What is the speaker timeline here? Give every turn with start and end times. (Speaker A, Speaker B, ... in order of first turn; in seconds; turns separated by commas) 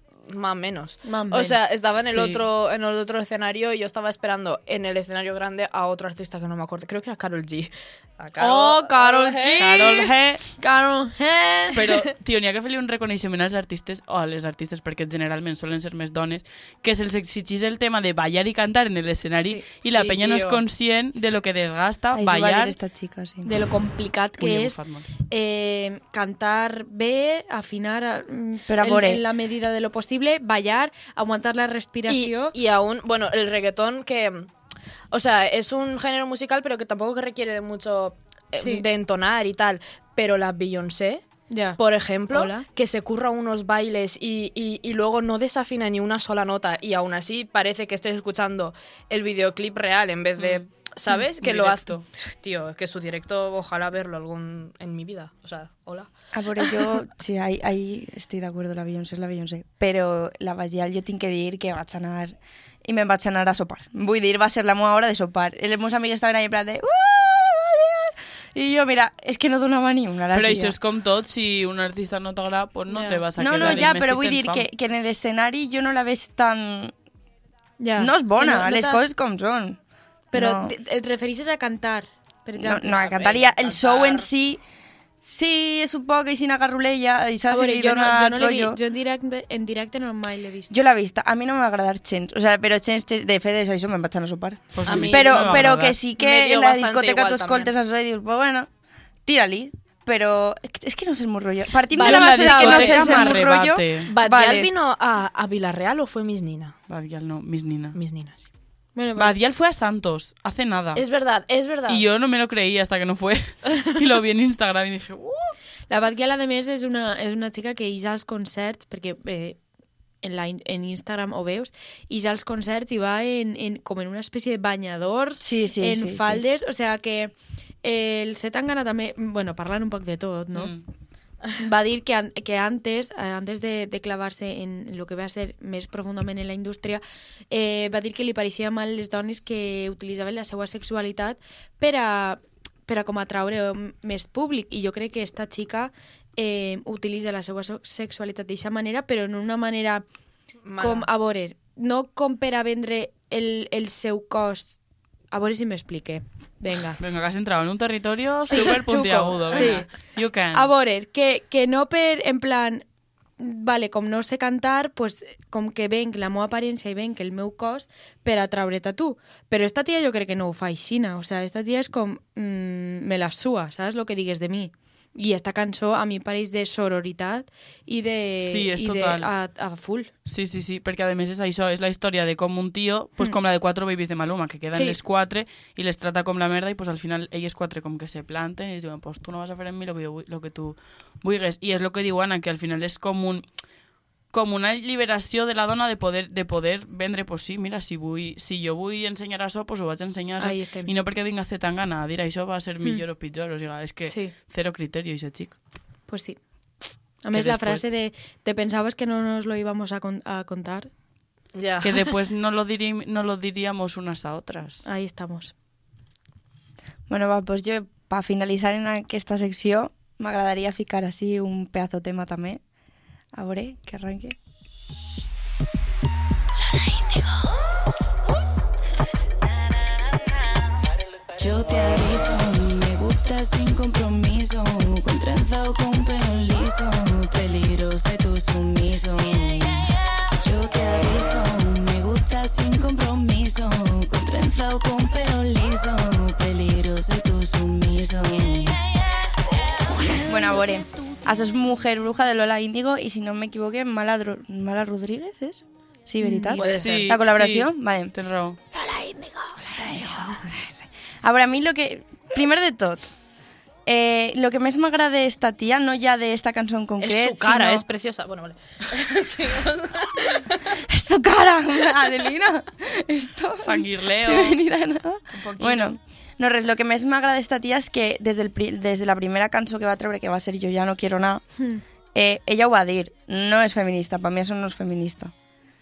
Speaker A: 0.3-9.7, Speaker B: 1.0-1.6, Speaker C: 2.0-2.4, Speaker C: 8.4-8.9, Speaker B: 8.5-11.8, Speaker C: 9.5-10.4, Speaker C: 11.7-22.8, Speaker A: 19.8-20.6, Speaker D: 22.1-23.5, Speaker B: 23.4-32.5, Speaker C: 24.4-25.1, Speaker D: 28.7-29.2, Speaker A: 32.1-34.5, Speaker A: 35.1-41.2, Speaker B: 38.6-38.8, Speaker B: 41.5-42.6, Speaker A: 41.8-56.1, Speaker C: 50.4-50.6, Speaker C: 51.4-52.0, Speaker D: 56.3-70.8, Speaker C: 70.3-74.6, Speaker B: 72.9-73.8, Speaker D: 73.4-76.9, Speaker B: 77.8-79.0, Speaker D: 78.0-79.8, Speaker B: 80.3-82.9, Speaker D: 80.3-80.8, Speaker D: 82.6-84.6, Speaker A: 82.9-84.3, Speaker D: 85.2-88.8, Speaker B: 87.5-90.7, Speaker D: 90.7-98.7, Speaker C: 94.7-96.0, Speaker A: 94.8-97.7, Speaker D: 99.2-104.7, Speaker A: 101.9-103.4, Speaker C: 102.0-104.1, Speaker A: 104.1-106.7, Speaker C: 106.9-108.0, Speaker A: 107.9-108.5, Speaker B: 108.9-109.4, Speaker C: 109.2-111.0, Speaker A: 110.9-112.0, Speaker C: 111.9-115.5, Speaker B: 115.9-119.6, Speaker B: 120.2-130.8, Speaker D: 125.4-126.4, Speaker C: 130.5-130.8, Speaker B: 131.6-150.0, Speaker A: 150.6-151.1, Speaker B: 150.8-154.8, Speaker B: 155.3-157.0, Speaker C: 157.0-160.7, Speaker B: 158.5-159.9, Speaker A: 159.5-159.8, Speaker B: 160.5-162.8, Speaker B: 163.4-180.1, Speaker C: 178.4-179.3, Speaker C: 180.2-193.4, Speaker C: 194.3-205.6, Speaker B: 200.4-200.9, Speaker B: 204.1-204.3, Speaker B: 206.1-206.4, Speaker B: 207.2-210.9, Speaker C: 207.3-207.8, Speaker A: 211.5-212.0, Speaker C: 211.8-214.8, Speaker B: 214.8-215.5, Speaker D: 217.1-222.6, Speaker D: 223.3-224.3, Speaker E: 231.4-239.9, Speaker E: 240.4-248.8, Speaker E: 250.1-250.8, Speaker D: 250.2-258.1, Speaker B: 256.2-256.8, Speaker A: 256.6-257.1, Speaker C: 256.6-258.6, Speaker D: 259.6-263.1, Speaker D: 263.9-267.9, Speaker A: 267.0-270.6, Speaker D: 270.8-281.4, Speaker C: 273.6-274.6, Speaker C: 275.4-275.9, Speaker D: 282.1-285.3